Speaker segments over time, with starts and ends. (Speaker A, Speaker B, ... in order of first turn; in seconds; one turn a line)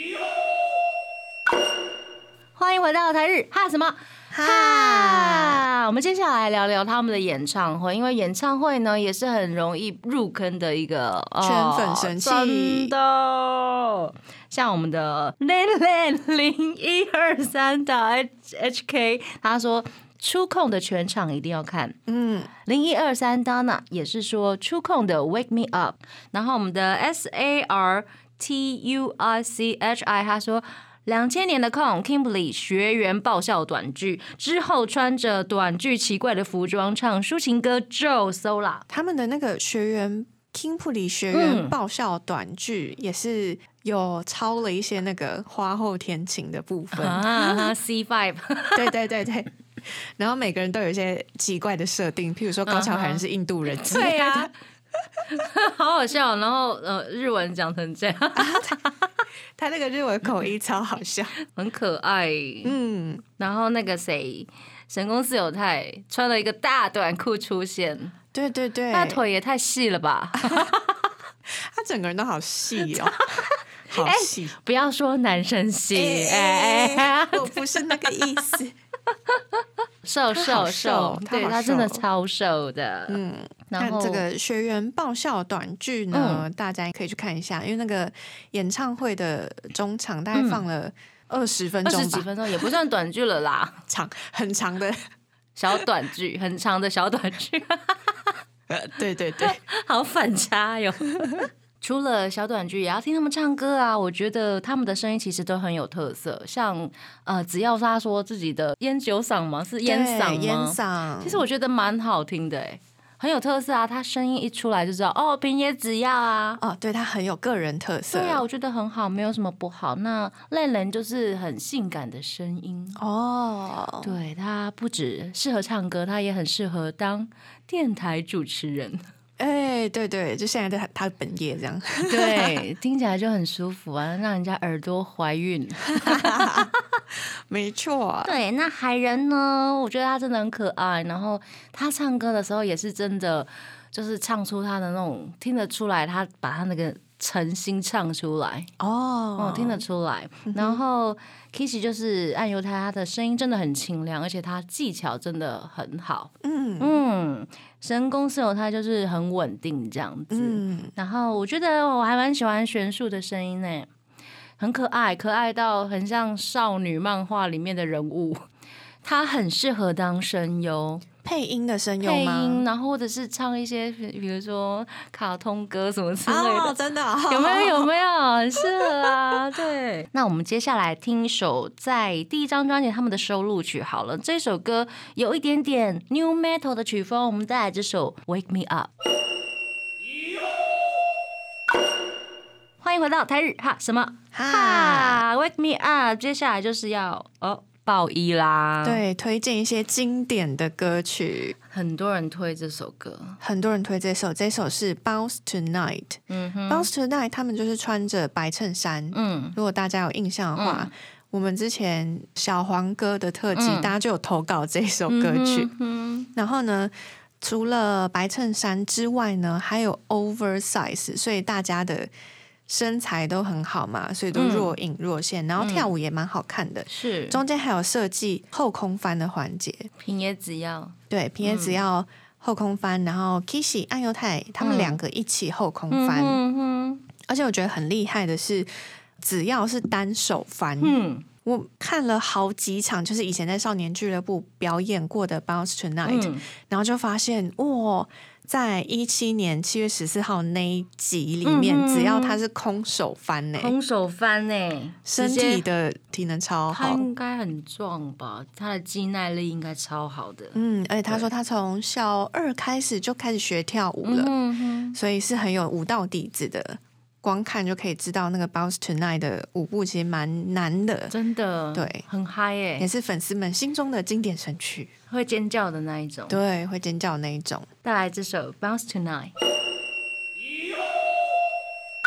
Speaker A: 2.6-22.0
Speaker B: 4.3-5.6
Speaker B: 11.4-12.9
Speaker B: 22.1-22.5
Speaker A: 22.6-38.9
Speaker B: 38.9-47.7
Speaker A: 41.3-41.8
Speaker A: 46.9-48.9
Speaker B: 48.8-54.5
Speaker A: 52.7-54.5
Speaker A: 55.3-59.1
Speaker B: 58.4-58.8
Speaker B: 59.6-61.3
Speaker A: 61.4-62.7
Speaker B: 62.6-63.2
Speaker A: 63.4-68.1
Speaker B: 68.3-69.2
Speaker A: 68.9-71.0
Speaker B: 70.4-70.7
Speaker B: 71.5-74.6
Speaker A: 72.8-77.7
Speaker B: 75.9-78.8
Speaker A: 79.1-84.2
Speaker B: 80.3-82.0
Speaker B: 83.1-92.7
Speaker A: 86.1-86.5
Speaker A: 90.3-90.6
Speaker A: 91.8-93.8
Speaker B: 93.9-95.0
Speaker A: 95.6-98.3
Speaker B: 98.7-99.6
Speaker A: 99.4-116.6
Speaker B: 109.8-111.5
Speaker B: 116.6-118.5
Speaker A: 118.1-123.0
Speaker B: 123.0-124.2
Speaker A: 124.0-129.1
Speaker B: 129.4-132.6
Speaker A: 132.1-136.7
Speaker B: 135.9-136.7
Speaker B: 137.5-138.4
Speaker A: 138.2-148.7
Speaker B: 148.8-149.8
Speaker A: 149.4-163.9
Speaker B: 150.5-150.8
Speaker B: 156.4-157.0
Speaker B: 160.3-160.9
Speaker A: 164.6-168.4
Speaker A: 169.0-171.1
Speaker B: 171.2-172.7
Speaker A: 172.0-176.8
Speaker B: 176.3-177.9
Speaker A: 177.3-188.9
Speaker A: 192.8-199.0
Speaker B: 194.3-195.2
Speaker B: 198.8-201.5
Speaker A: 201.7-203.4
Speaker B: 203.4-215.7
Speaker A: 206.3-206.9
Speaker A: 209.1-209.6
Speaker A: 210.6-210.9
Speaker A: 213.5-213.9
Speaker A: 215.1-216.3
Speaker B: 216.3-222.1
Speaker B: 222.7-229.9
Speaker A: 224.3-224.8
Speaker A: 225.6-225.9
Speaker A: 226.9-227.4
Speaker A: 230.0-231.8
Speaker B: 231.1-236.4
Speaker A: 234.6-235.0
Speaker A: 235.9-237.0
Speaker B: 237.3-253.8
Speaker A: 240.8-241.3
Speaker A: 246.1-246.5
Speaker A: 251.4-252.4
Speaker A: 253.6-255.7
Speaker B: 255.1-257.1
Speaker A: 256.7-261.2
Speaker B: 260.6-264.3
Speaker A: 264.0-265.0
Speaker B: 264.9-271.1
Speaker A: 271.1-272.9
Speaker B: 271.7-272.1
Speaker B: 272.8-274.9
Speaker A: 275.1-276.4
Speaker B: 276.3-277.7
Speaker A: 277.8-279.3